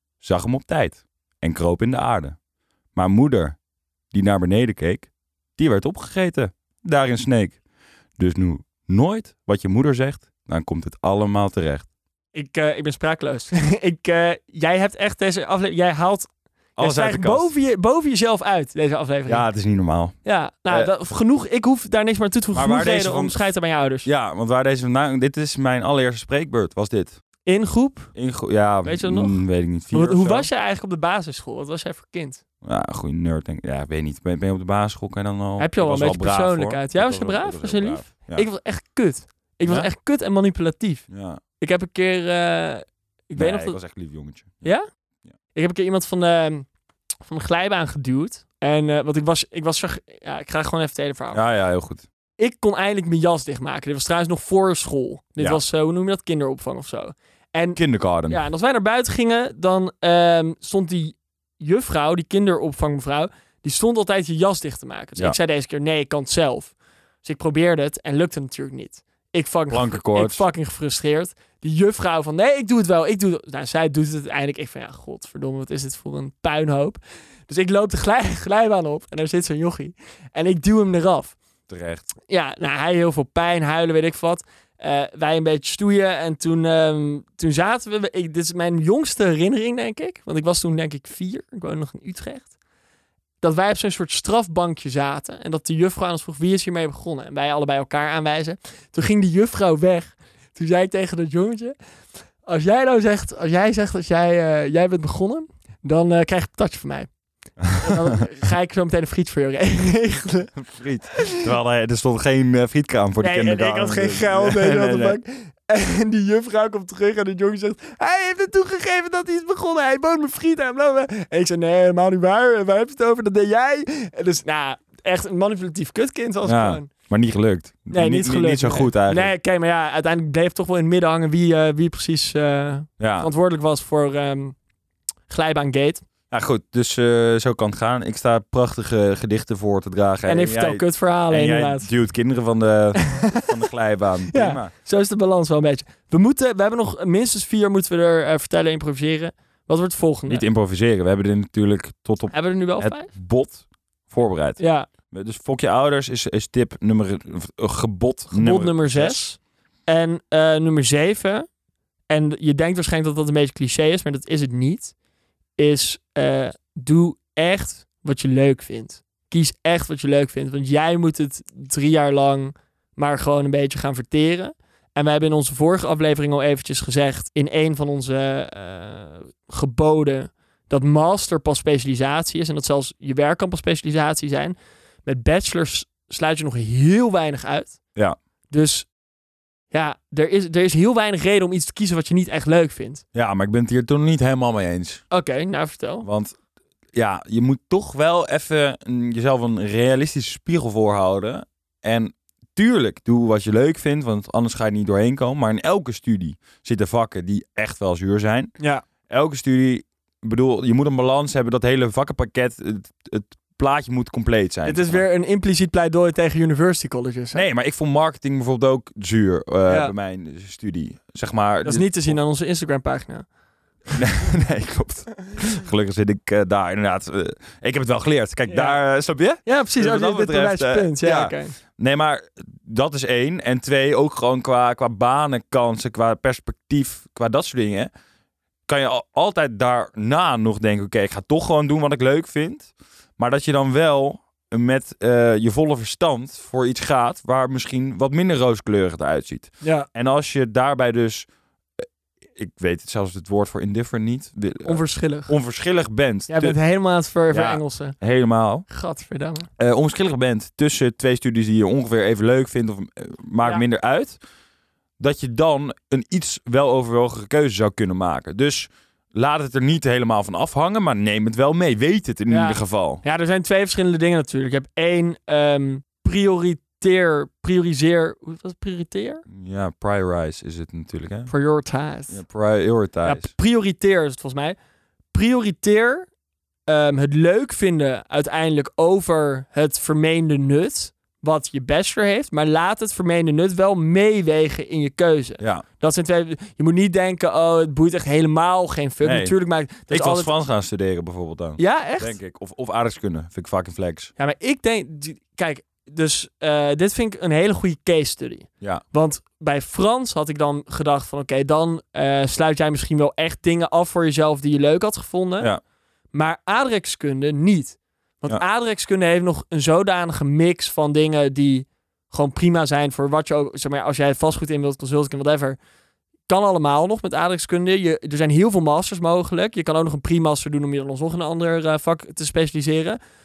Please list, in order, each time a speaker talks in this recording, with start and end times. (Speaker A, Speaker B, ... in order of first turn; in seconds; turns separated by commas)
Speaker A: 0.2-2.4, Speaker A: 3.0-3.6, Speaker A: 4.1-7.6, Speaker A: 8.2-11.9, Speaker B: 12.3-19.4, Speaker A: 16.8-17.5, Speaker A: 19.3-20.1, Speaker B: 20.2-24.1, Speaker A: 22.5-23.4, Speaker A: 24.0-27.2, Speaker B: 27.5-28.1, Speaker A: 28.1-30.5, Speaker B: 28.9-29.4, Speaker B: 29.9-32.4, Speaker A: 32.6-38.5, Speaker B: 35.6-41.0, Speaker A: 39.6-39.9, Speaker A: 41.1-41.4, Speaker B: 41.6-43.8, Speaker A: 43.4-44.6, Speaker B: 45.5-46.7, Speaker B: 47.2-51.4, Speaker A: 51.3-52.0, Speaker B: 52.4-81.4, Speaker A: 57.8-58.4, Speaker A: 69.7-70.5, Speaker A: 81.7-82.1, Speaker B: 82.3-92.5, Speaker B: 93.4-101.8, Speaker B: 102.5-107.1, Speaker A: 107.6-108.2, Speaker B: 107.8-110.5, Speaker A: 110.6-115.2, Speaker B: 111.1-111.5, Speaker B: 113.2-126.9, Speaker A: 126.4-129.3, Speaker B: 127.9-134.6, Speaker A: 133.0-133.3, Speaker B: 135.3-136.0, Speaker A: 136.3-144.7, Speaker B: 140.3-141.9, Speaker B: 143.0-143.6, Speaker B: 144.3-150.4, Speaker A: 150.3-159.2, Speaker B: 152.3-153.1, Speaker B: 154.6-154.9, Speaker B: 158.3-161.5, Speaker B: 162.1-164.9, Speaker B: 165.6-187.8, Speaker B: 188.5-188.9, Speaker B: 189.7-193.0, Speaker A: 193.1-195.0, Speaker B: 195.1-196.1, Speaker A: 196.0-196.3, Speaker A: 196.9-208.5, Speaker B: 208.6-208.8, Speaker A: 209.1-215.0, Speaker B: 214.7-217.5, Speaker A: 217.3-222.2, Speaker B: 219.7-219.9, Speaker B: 221.6-223.3, Speaker A: 223.9-237.9, Speaker B: 228.5-228.8, Speaker B: 229.4-231.6, Speaker A: 238.7-251.3, Speaker B: 249.6-249.9, Speaker A: 252.4-256.6, Speaker B: 254.7-255.3, Speaker B: 256.3-258.0, Speaker A: 257.3-258.7, Speaker B: 258.7-259.5, Speaker A: 259.6-264.2, Speaker A: 265.0-273.0, Speaker B: 272.3-279.2, Speaker A: 279.3-281.3, Speaker B: 281.3-282.2, Speaker A: 282.1-283.3, Speaker B: 283.0-284.6, Speaker B: 285.1-286.1, Speaker B: 286.7-300.3, Speaker A: 295.4-295.6, Speaker A: 299.0-299.3, Speaker A: 299.9-304.1, Speaker B: 301.6-302.2, Speaker B: 304.2-315.5, Speaker B: 316.1-325.6, Speaker B: 326.3-333.0